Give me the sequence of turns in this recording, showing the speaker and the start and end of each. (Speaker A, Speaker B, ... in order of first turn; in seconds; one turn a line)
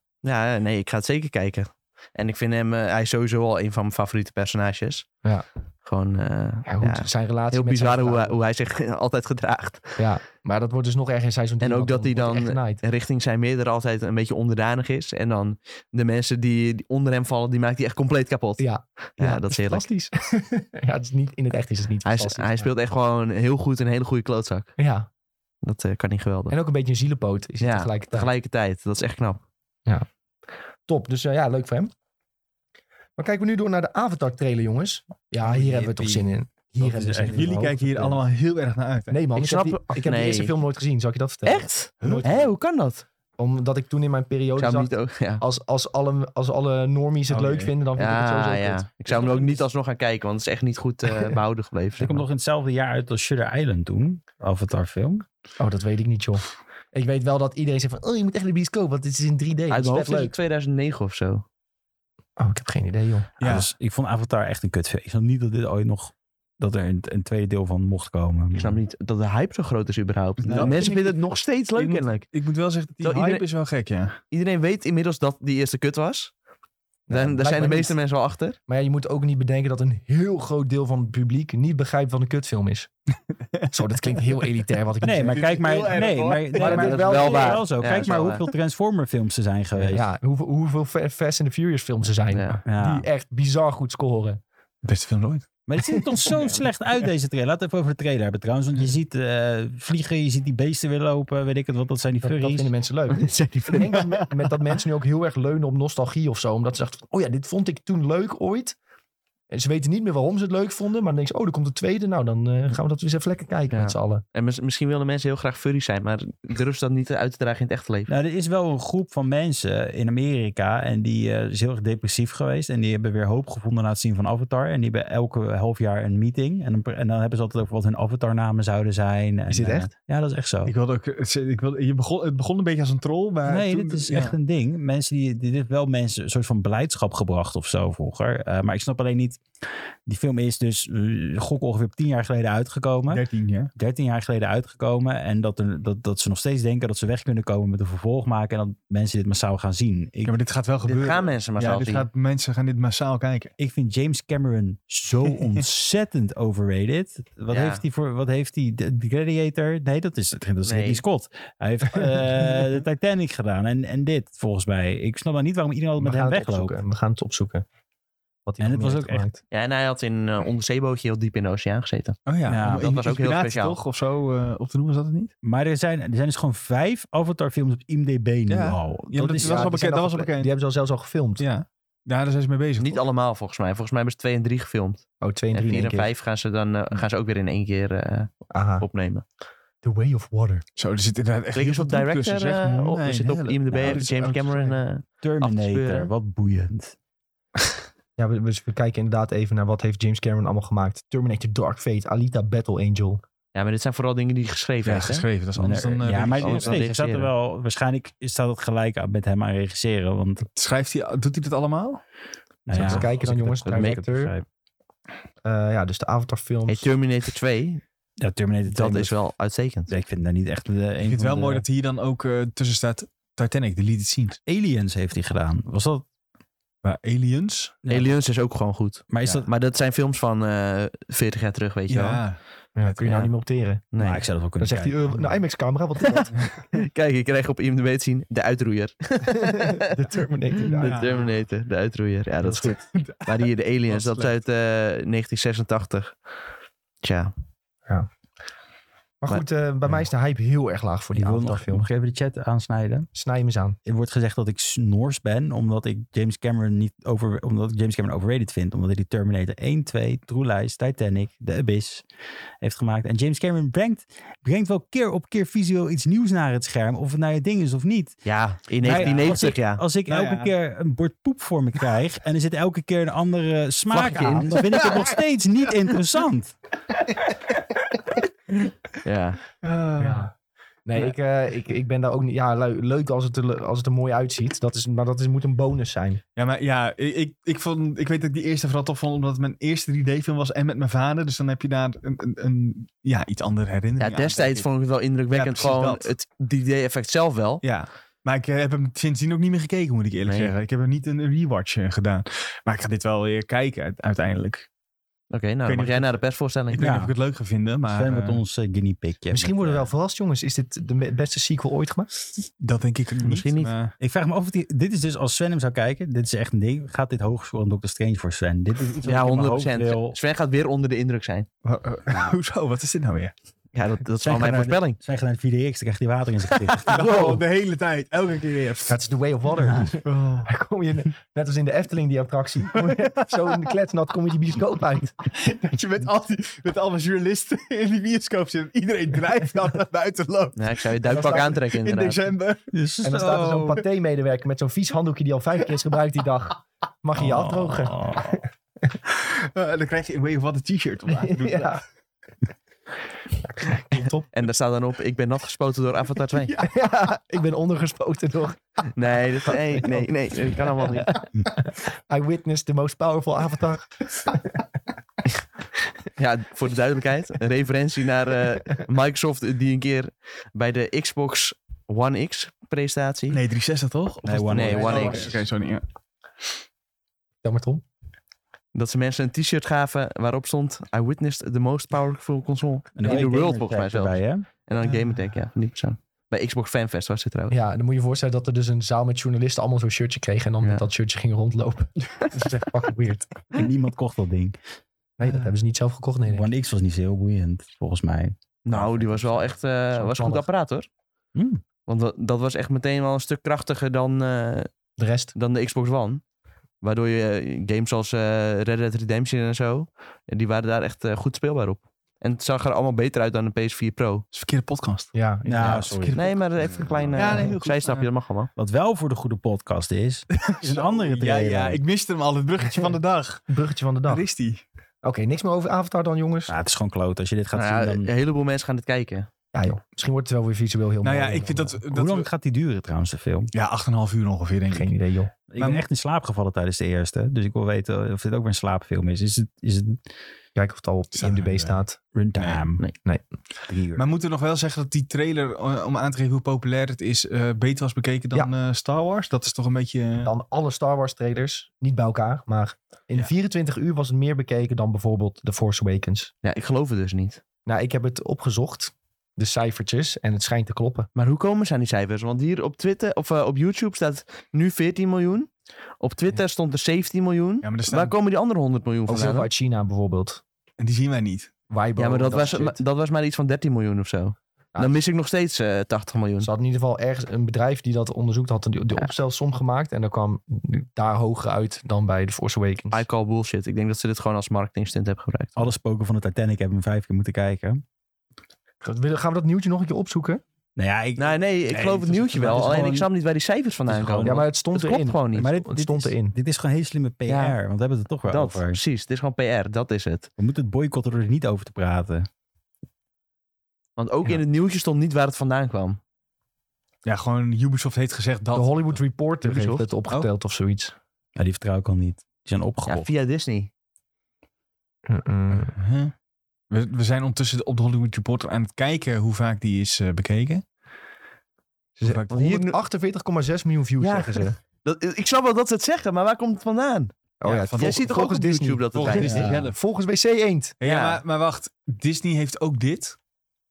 Speaker A: 0.2-5.1
Speaker A: 5.8-10.1
Speaker B: 6.7-8.4
Speaker B: 10.0-12.8
Speaker A: 11.6-19.8
Speaker B: 18.6-22.7
Speaker A: 22.0-24.7
Speaker B: 24.8-25.1
Speaker A: 25.6-26.6
Speaker B: 26.5-28.3
Speaker A: 27.6-29.4
Speaker B: 30.9-31.9
Speaker B: 33.2-37.7
Speaker C: 35.4-38.1
Speaker D: 37.2-39.2
Speaker B: 39.1-42.5
Speaker A: 39.4-40.5
Speaker A: 41.5-43.0
Speaker D: 42.0-42.3
Speaker B: 43.4-49.7
Speaker A: 44.6-45.4
Speaker D: 47.3-47.7
Speaker A: 48.0-52.2
Speaker C: 52.0-55.2
Speaker B: 55.6-60.3
Speaker A: 59.7-61.4
Speaker B: 62.4-63.3
Speaker D: 63.4-63.7
Speaker C: 63.4-68.8
Speaker A: 68.5-72.3
Speaker D: 70.4-71.2
Speaker C: 70.4-70.8
Speaker D: 71.8-74.2
Speaker A: 73.0-73.4
Speaker A: 74.3-76.3
Speaker B: 77.1-78.0
Speaker A: 77.1-78.6
Speaker B: 78.7-82.9
Speaker D: 83.5-84.2
Speaker B: 83.7-85.6
Speaker C: 85.0-90.1
Speaker D: 85.2-87.0
Speaker B: 86.5-87.6
Speaker A: 86.6-88.5
Speaker B: 89.8-94.4
Speaker A: 92.3-92.6
Speaker C: 92.7-93.1
Speaker D: 94.8-95.5
Speaker C: 95.7-102.7
Speaker B: 95.8-96.5
Speaker B: 102.2-108.8
Speaker A: 103.2-104.0
Speaker B: 109.5-114.2
Speaker A: 113.7-118.1
Speaker C: 118.1-130.7
Speaker B: 129.5-129.9
Speaker D: 130.6-134.3
Speaker C: 133.4-139.4
Speaker C: 140.1-150.4
Speaker D: 143.1-143.7
Speaker D: 150.2-153.5
Speaker A: 150.8-152.1
Speaker C: 153.6-166.8
Speaker A: 157.5-157.8
Speaker A: 160.6-161.0
Speaker B: 166.0-167.6
Speaker B: 168.4-169.4
Speaker C: 168.6-169.2
Speaker A: 169.5-173.8
Speaker D: 172.2-175.3
Speaker C: 172.5-172.9
Speaker C: 175.4-179.7
Speaker D: 178.5-180.5
Speaker B: 179.3-181.4
Speaker D: 181.4-183.0
Speaker A: 182.8-189.2
Speaker B: 185.2-186.1
Speaker B: 188.5-188.8
Speaker B: 189.8-190.6
Speaker D: 190.8-194.8
Speaker A: 191.5-196.1
Speaker C: 195.2-196.9
Speaker B: 198.2-203.2
Speaker A: 203.5-205.2
Speaker D: 204.8-206.8
Speaker C: 205.6-210.4
Speaker A: 206.2-207.3
Speaker D: 210.6-212.0
Speaker C: 212.7-214.4
Speaker B: 212.7-214.3
Speaker D: 212.8-213.1
Speaker A: 213.7-214.0
Speaker B: 215.4-216.9
Speaker A: 216.7-217.8
Speaker C: 218.2-219.2
Speaker A: 218.7-219.9
Speaker C: 219.9-221.6
Speaker D: 221.0-224.4
Speaker C: 224.4-226.0
Speaker D: 226.8-227.7
Speaker C: 227.8-228.1
Speaker A: 227.9-232.2
Speaker C: 229.1-229.5
Speaker D: 231.9-232.4
Speaker B: 232.8-233.9
Speaker A: 233.0-233.3
Speaker A: 233.9-234.2
Speaker C: 234.0-235.3
Speaker B: 234.6-236.6
Speaker A: 236.1-239.9
Speaker B: 239.2-241.3
Speaker D: 240.6-241.2
Speaker A: 240.7-246.2
Speaker D: 242.6-244.3
Speaker A: 247.0-247.3
Speaker B: 249.2-251.9
Speaker C: 251.1-253.1
Speaker B: 253.1-253.8
Speaker C: 253.8-262.0
Speaker C: 262.6-268.2
Speaker A: 268.2-269.8
Speaker C: 268.8-276.6
Speaker D: 268.9-269.3
Speaker D: 270.1-270.5
Speaker A: 273.9-274.9
Speaker A: 279.0-279.4
Speaker D: 279.6-280.3
Speaker B: 280.0-280.3
Speaker B: 280.9-286.2
Speaker D: 286.4-294.7
Speaker A: 294.0-297.6
Speaker D: 295.3-296.1
Speaker D: 297.6-304.7
Speaker A: 300.2-300.5
Speaker A: 305.3-306.8
Speaker D: 305.6-308.4
Speaker C: 306.8-307.1
Speaker C: 307.9-309.9
Speaker B: 309.3-312.1
Speaker D: 312.6-313.9
Speaker A: 313.2-313.7
Speaker C: 314.0-320.2
Speaker A: 319.0-321.5
Speaker D: 321.6-323.3
Speaker C: 322.1-322.3
Speaker A: 323.7-325.0
Speaker C: 324.2-327.1
Speaker A: 326.9-327.4
Speaker D: 326.9-329.0
Speaker B: 328.9-335.2
Speaker D: 330.0-330.5
Speaker D: 335.3-342.7
Speaker A: 340.6-342.2
Speaker B: 341.1-341.5
Speaker C: 342.7-343.8
Speaker B: 343.0-348.4
Speaker C: 347.1-348.4
Speaker D: 349.1-351.8
Speaker B: 351.1-351.8
Speaker B: 353.6-354.3
Speaker A: 354.3-356.5
Speaker B: 356.5-358.9
Speaker A: 358.9-361.1
Speaker B: 359.5-364.6
Speaker A: 366.2-373.4
Speaker D: 373.3-375.8
Speaker C: 374.2-375.3
Speaker A: 374.5-375.4
Speaker B: 374.7-375.4
Speaker B: 377.4-377.8
Speaker A: 378.7-387.6
Speaker C: 382.9-384.5
Speaker B: 383.0-383.3
Speaker D: 384.8-385.3
Speaker B: 387.5-393.5
Speaker C: 393.5-394.6
Speaker B: 395.2-396.5
Speaker C: 396.2-399.5
Speaker A: 398.6-400.9
Speaker B: 399.9-400.5
Speaker C: 401.3-401.6
Speaker A: 401.9-404.7
Speaker B: 405.0-405.3
Speaker A: 405.3-406.2
Speaker A: 406.8-414.2
Speaker D: 414.3-416.4
Speaker B: 415.1-416.1
Speaker C: 415.4-417.5
Speaker A: 416.1-418.5
Speaker D: 417.1-418.1
Speaker C: 418.6-421.8
Speaker D: 420.3-423.5
Speaker B: 422.6-422.9
Speaker B: 423.5-424.2
Speaker D: 424.1-424.6
Speaker B: 425.0-426.5
Speaker C: 426.5-428.1
Speaker A: 427.5-429.3
Speaker B: 429.5-431.8
Speaker D: 431.0-432.3
Speaker C: 431.9-433.5
Speaker D: 433.5-434.9
Speaker B: 434.7-435.3
Speaker C: 435.5-440.0
Speaker D: 435.6-435.8
Speaker B: 440.5-442.0
Speaker D: 441.1-441.8
Speaker C: 442.1-442.8
Speaker D: 442.4-442.7
Speaker C: 443.7-444.1
Speaker D: 443.9-450.3
Speaker B: 450.2-456.3
Speaker A: 456.4-457.4
Speaker B: 457.6-461.1
Speaker A: 461.1-469.5
Speaker D: 467.6-468.1
Speaker B: 469.1-470.4
Speaker D: 470.8-471.5
Speaker B: 471.7-472.8
Speaker A: 472.0-476.5
Speaker B: 476.4-483.1
Speaker A: 482.9-485.7
Speaker C: 485.6-487.8
Speaker B: 488.8-490.4
Speaker C: 490.8-493.1
Speaker A: 491.2-495.5
Speaker D: 492.2-493.0
Speaker C: 493.9-494.4
Speaker B: 494.2-496.4
Speaker C: 495.3-498.8
Speaker A: 497.2-497.6
Speaker A: 498.3-500.3
Speaker C: 500.4-502.3
Speaker A: 504.0-506.0
Speaker D: 507.0-509.0
Speaker B: 508.5-510.9
Speaker A: 509.4-509.9
Speaker C: 511.4-513.1
Speaker A: 512.9-513.7
Speaker B: 515.1-515.7
Speaker D: 515.5-516.1
Speaker D: 516.7-520.6
Speaker D: 522.0-522.3
Speaker B: 522.0-524.6
Speaker A: 522.3-522.8
Speaker A: 524.0-529.5
Speaker B: 527.4-530.8
Speaker D: 527.5-528.4
Speaker D: 528.9-529.7
Speaker C: 529.3-529.6
Speaker D: 530.8-533.1
Speaker A: 530.8-531.2